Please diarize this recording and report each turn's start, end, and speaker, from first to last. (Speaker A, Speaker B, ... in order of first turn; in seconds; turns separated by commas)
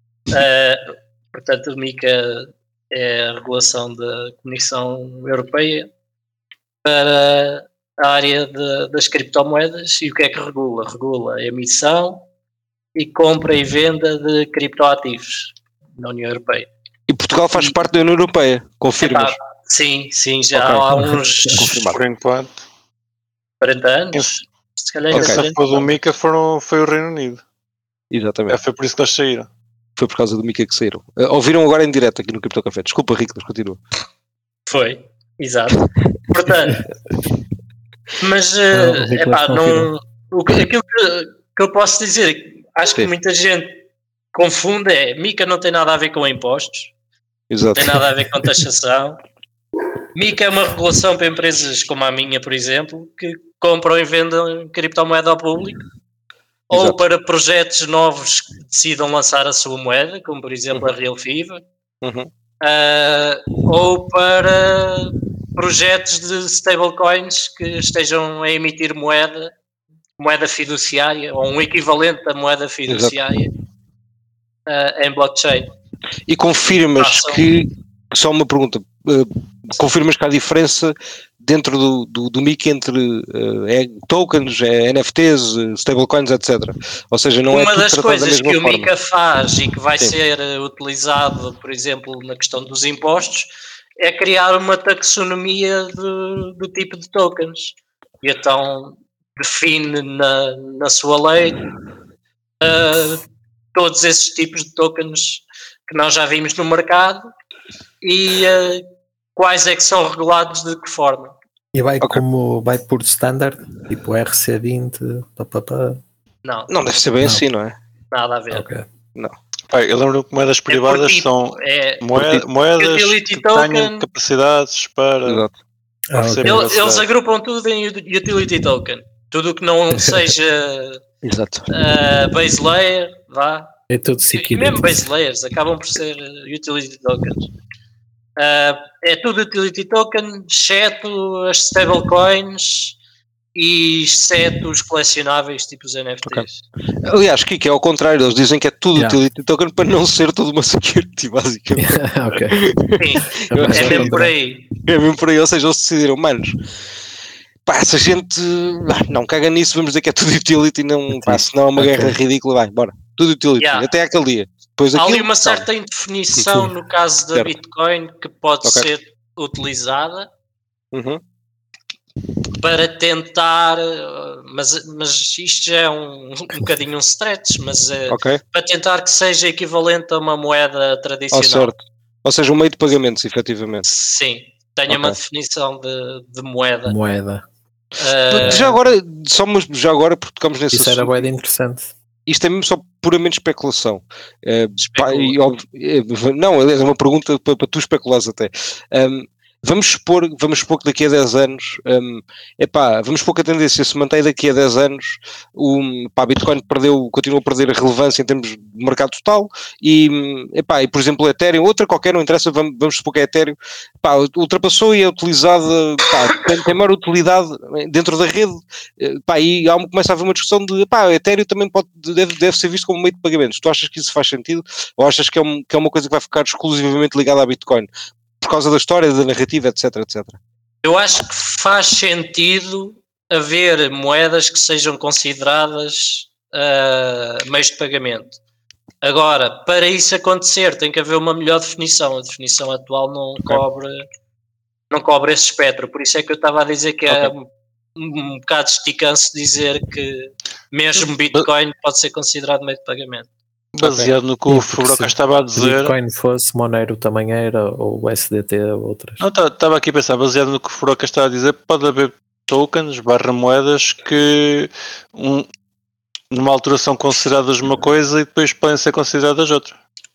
Speaker A: 0.3-5.9, Speaker A: 6.8-12.2, Speaker A: 12.9-16.7, Speaker B: 17.1-19.4, Speaker A: 19.0-21.9, Speaker B: 20.5-20.9, Speaker C: 21.0-21.5, Speaker B: 21.5-22.0, Speaker D: 21.8-22.6, Speaker A: 23.6-26.0, Speaker D: 25.1-27.4, Speaker B: 25.1-25.4, Speaker B: 28.1-28.6, Speaker D: 28.5-29.5, Speaker B: 30.0-33.8, Speaker A: 34.7-36.9, Speaker A: 38.2-43.8, Speaker C: 38.7-39.9, Speaker A: 44.3-46.9, Speaker B: 47.5-48.1, Speaker A: 47.8-49.2, Speaker A: 50.1-55.9, Speaker B: 56.7-57.0, Speaker A: 56.7-61.6, Speaker B: 62.0-62.3, Speaker A: 62.6-69.5, Speaker A: 70.2-73.5, Speaker B: 72.9-73.1, Speaker A: 74.7-75.7, Speaker B: 76.3-88.9, Speaker A: 77.0-77.4, Speaker A: 87.5-101.6, Speaker A: 102.6-103.2, Speaker A: 103.7-107.3, Speaker A: 108.0-111.3, Speaker C: 111.7-116.0, Speaker A: 116.4-116.7, Speaker B: 116.7-117.8, Speaker A: 118.1-118.7, Speaker C: 118.5-118.8, Speaker D: 119.7-125.5, Speaker A: 120.7-124.1, Speaker B: 125.3-125.5, Speaker C: 126.1-126.7, Speaker D: 126.2-127.1, Speaker A: 126.5-131.0, Speaker B: 131.2-131.7, Speaker A: 131.7-133.7, Speaker C: 133.9-135.0, Speaker A: 134.3-137.5, Speaker A: 138.4-143.0, Speaker A: 143.6-146.6, Speaker B: 147.0-154.2, Speaker C: 148.9-149.2, Speaker C: 151.8-152.6, Speaker A: 153.0-154.7, Speaker C: 153.5-154.3, Speaker B: 154.8-156.6, Speaker B: 157.7-165.7, Speaker C: 161.1-162.2, Speaker A: 163.6-163.9, Speaker A: 164.9-170.3, Speaker B: 170.9-171.2, Speaker A: 172.5-181.7, Speaker B: 178.1-178.4, Speaker B: 181.3-183.9, Speaker A: 183.8-187.0, Speaker B: 184.9-185.2, Speaker C: 186.9-187.4, Speaker A: 188.0-188.8, Speaker B: 188.3-191.3, Speaker C: 190.7-191.9, Speaker B: 192.3-227.9, Speaker A: 194.8-195.3, Speaker B: 228.4-230.4, Speaker A: 230.8-238.4, Speaker A: 239.0-244.0, Speaker A: 244.9-253.3, Speaker B: 247.1-247.3, Speaker D: 253.8-255.9, Speaker B: 253.8-254.1, Speaker C: 254.5-259.2, Speaker D: 259.2-265.5, Speaker D: 266.3-269.8